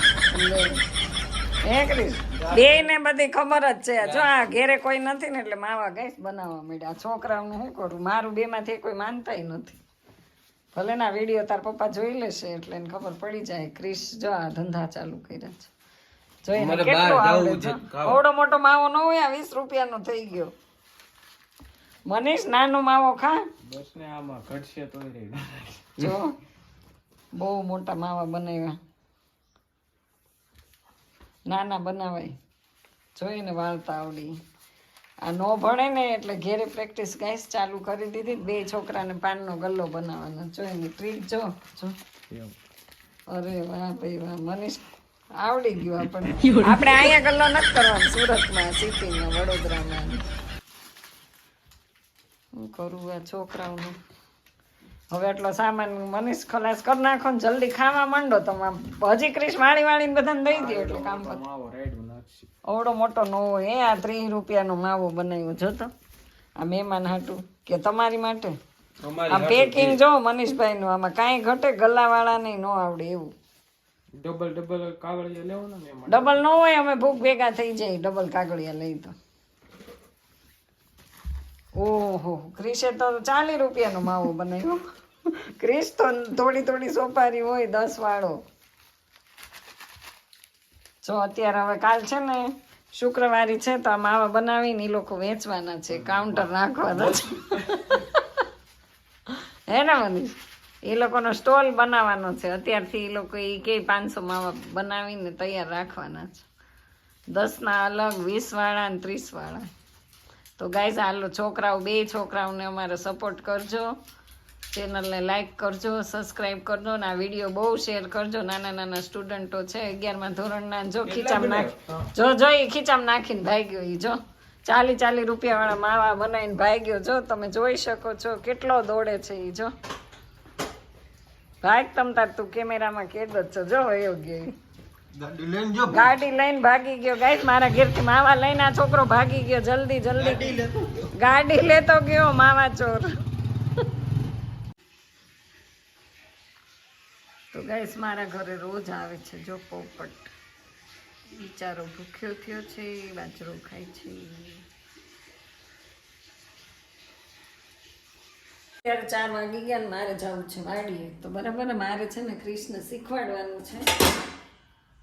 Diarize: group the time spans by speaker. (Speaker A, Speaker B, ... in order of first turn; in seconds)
Speaker A: 0.3-0.8, 1.6-9.8, 10.7-15.7, 16.4-20.5, 22.1-23.4, 26.0-26.4, 27.4-28.8, 31.5-32.4, 33.2-34.3, 35.2-42.0, 43.3-50.2, 52.5-54.0, 55.1-61.4, 62.7-65.9, 66.6-68.6, 69.3-73.3, 76.1-79.1, 81.8-88.4, 91.0-98.4, 99.3-106.5, 107.3-109.7, 110.6-113.9, 114.7-129.7, 131.6-134.4, 135.9-140.6, 141.2-143.1, 147.5-150.3, 151.3-154.6, 158.8-163.9
Speaker B: 2.4-2.9, 135.1-136.1, 140.2-141.1
Speaker C: 16.6-18.2, 23.6-25.9, 46.3-46.6, 60.5-62.5, 69.0-70.0, 74.1-76.4, 96.0-96.5, 97.1-97.7, 121.0-122.1